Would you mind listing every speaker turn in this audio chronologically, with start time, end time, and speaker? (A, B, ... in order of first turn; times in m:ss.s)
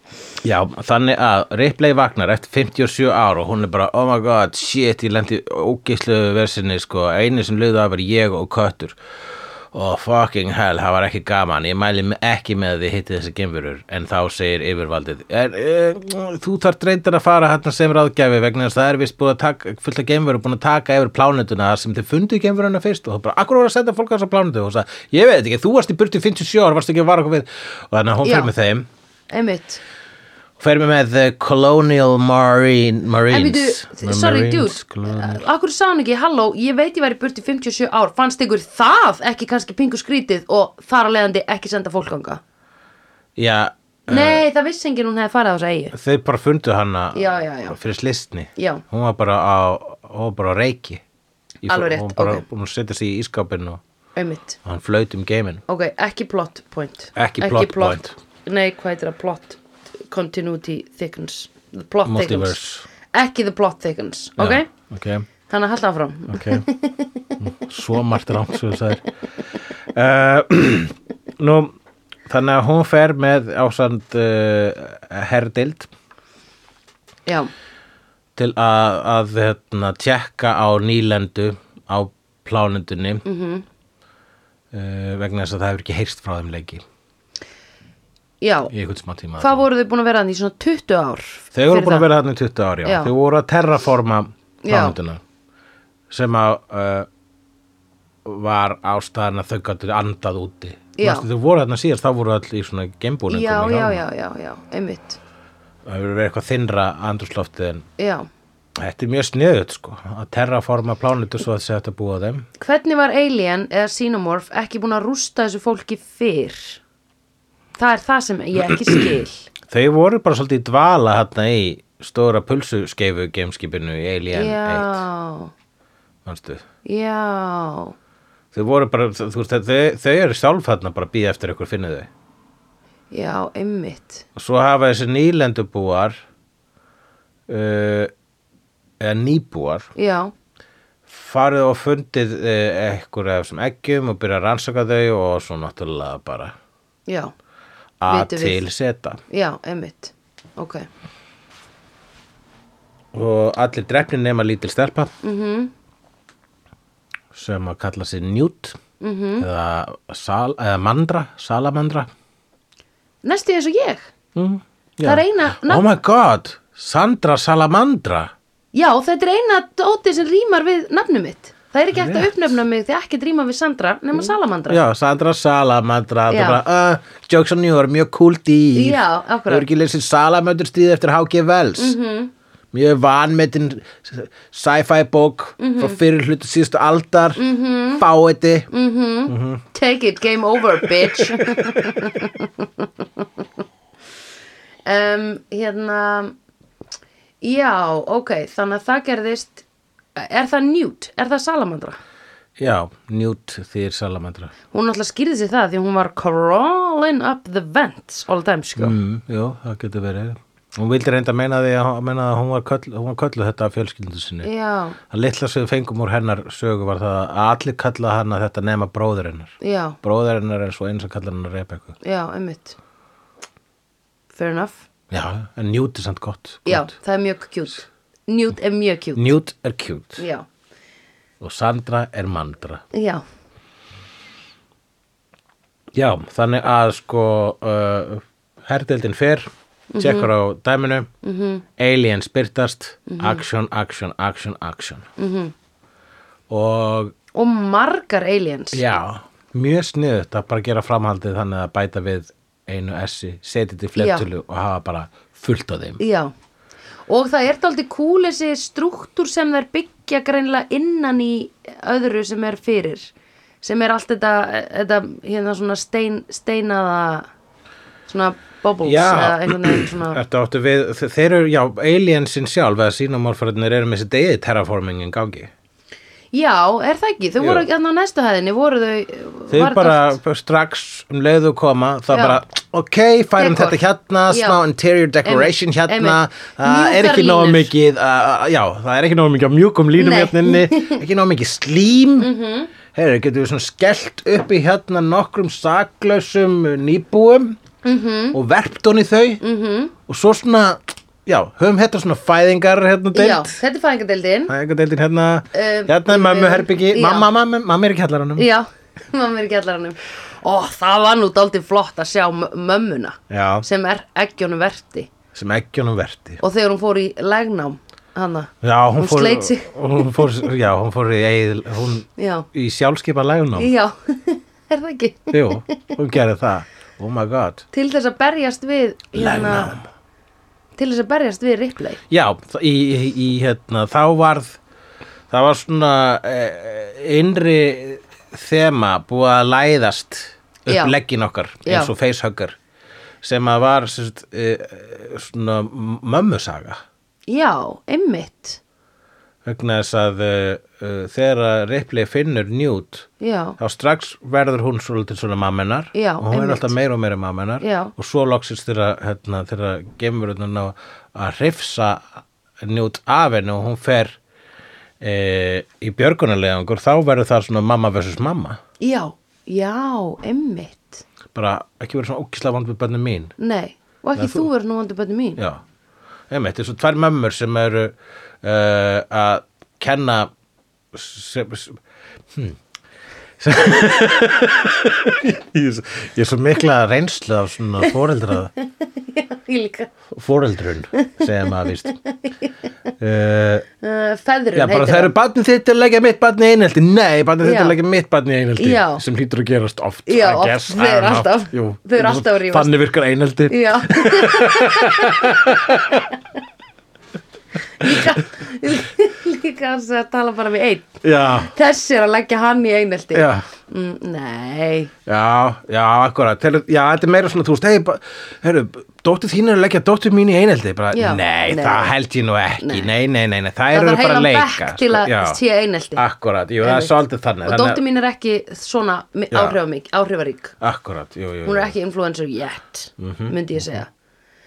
0:00.4-0:09.0 A
0:09.7-0:28.9 A
0:28.2-0:28.5 B
0:29.3-0:29.8 B
0:30.6-0:35.4 A
0:33.3-0:42.4 B
0:43.4-0:44.4 A
0:44.1-0:46.0 B
0:45.9-0:51.0 A
0:47.1-0:47.8 B
0:48.6-0:48.8 B
0:51.6-0:53.8 A
0:51.7-0:52.4 B
0:54.2-0:54.6 B
0:54.6-0:55.6 A
0:55.7-1:02.6 B
0:57.2-0:58.2 A
1:02.1-1:02.8 A
1:03.1-1:04.7 B
1:04.4-1:05.3 A
1:05.5-1:07.3 B
1:06.3-1:06.7 A
1:07.4-1:09.0 A
1:09.9-1:11.8 A
1:12.3-1:15.9 A
1:18.4-1:23.2 A
1:23.2-1:23.6 B
1:24.7-1:26.8 A
1:28.4-1:28.7 B
1:28.7-1:29.7 A
1:29.4-1:32.1 B
1:31.5-1:35.2 A
1:32.8-1:33.1 B
1:34.6-1:35.0 B
1:36.1-1:37.1 A
1:38.2-1:44.0 A
1:41.0-1:41.3 B
1:43.3-1:45.2 B
1:45.8-1:47.9 A
1:48.0-1:48.3 B
1:48.8-1:52.5 A
1:52.6-1:56.8 B
1:57.8-1:59.5 B
1:59.7-2:05.0 A
2:04.3-2:05.5 B
2:06.2-2:06.6 A
2:06.8-2:08.0 B
2:08.5-2:12.1 A
2:13.1-2:14.3 B
2:14.4-2:16.2 A
2:17.5-2:18.1 A
2:19.0-2:19.9 A
2:20.0-2:20.3 B
2:21.1-2:26.6 A
2:27.1-2:27.3 B
2:28.0-2:29.2 A
2:28.1-2:28.6 B
2:29.3-2:30.9 B
2:33.1-2:35.1 A
2:35.2-2:35.7 B
2:37.3-2:38.8 A
2:39.0-2:39.5 B
2:39.4-2:42.1 A
2:43.2-2:44.1 B
2:44.4-2:48.3 A
2:45.0-2:45.9 B
2:48.7-2:54.8 B
2:51.9-2:52.5 A
2:54.2-3:02.0 A
2:56.3-2:56.6 B
2:58.8-2:59.7 B
3:01.8-3:02.3 B
3:02.7-3:07.4 A
3:05.6-3:06.0 B
3:07.4-3:08.0 B
3:08.0-3:08.7 A
3:08.7-3:13.4 B
3:09.3-3:09.6 A
3:10.8-3:12.1 A
3:14.9-3:16.4 B
3:17.4-3:19.6 B
3:20.2-3:22.0 B
3:22.6-3:24.5 A
3:24.7-3:29.0 B
3:28.8-3:34.5 A
3:34.4-3:35.0 B
3:35.1-3:42.0 A
3:39.6-3:40.0 B
3:42.0-3:42.8 B
3:44.3-3:44.8 B
3:45.1-3:46.9 A
3:46.7-3:49.3 B
3:49.2-3:50.2 A
3:50.2-3:50.5 B
3:51.4-3:52.8 A
3:52.9-3:53.2 B
3:55.9-4:01.1 A
3:59.9-4:00.3 B
4:01.2-4:01.6 B
4:01.8-4:05.1 A
4:03.1-4:03.4 B
4:05.2-4:05.5 B
4:06.5-4:07.2 A
4:07.3-4:08.8 B
4:08.7-4:16.0 A
4:14.0-4:14.3 B
4:16.0-4:16.3 B
4:17.1-4:23.1 B
4:23.6-4:27.3 B
4:28.1-4:30.2 B
4:28.8-4:35.5 A
4:36.3-4:40.2 B
4:37.4-4:37.7 A
4:39.5-4:52.3 A
4:42.1-4:42.4 B
4:43.4-4:44.6 B
4:45.2-4:47.7 B
4:50.0-4:51.0 B
4:52.2-4:52.7 B
4:52.9-4:57.6 A
4:57.8-4:58.4 B
4:58.3-4:59.4 A
4:59.4-4:59.9 B
5:00.1-5:03.6 A
5:03.1-5:04.5 B
5:04.5-5:08.5 A
5:05.5-5:07.3 B
5:08.4-5:15.1 B
5:13.3-5:13.6 A
5:15.3-5:16.4 A
5:16.4-5:20.4 B
5:18.6-5:23.7 A
5:22.2-5:22.5 B
5:23.6-5:25.9 B
5:25.3-5:27.6 A
5:27.7-5:29.8 B
5:29.2-5:29.8 A
5:30.8-5:32.0 B
5:32.1-5:34.6 A
5:35.3-5:42.6 A
5:40.7-5:41.0 B
5:41.6-5:41.9 B
5:43.2-5:46.8 A
5:47.3-5:48.6 B
5:49.4-6:04.2 A
5:53.2-5:53.6 B
5:55.9-5:56.7 B
5:57.6-5:57.9 B
6:05.0-6:08.6 A
6:08.8-6:11.0 B
6:11.3-6:13.3 A
6:13.4-6:15.4 B
6:14.2-6:14.5 A
6:16.3-6:20.3 A
6:20.9-6:21.8 A
6:23.4-6:28.5 A
6:28.6-6:29.9 B
6:30.1-6:32.0 A
6:31.0-6:31.2 B
6:31.9-6:32.3 B
6:33.0-6:33.6 A
6:33.8-6:35.1 B
6:34.5-6:46.1 A
6:37.4-6:37.8 B
6:38.6-6:39.0 B
6:40.1-6:42.7 B
6:43.5-6:45.3 B
6:47.8-6:54.9 B
6:47.8-6:48.1 A
6:51.0-6:51.5 A
6:53.1-6:53.4 A
6:55.1-7:05.4 A
7:00.9-7:01.9 B
7:02.6-7:02.9 B
7:03.7-7:06.0 B
7:06.0-7:07.8 A
7:06.6-7:10.6 B
7:09.3-7:09.6 A
7:10.6-7:11.7 A
7:11.4-7:13.9 B
7:13.0-7:13.4 A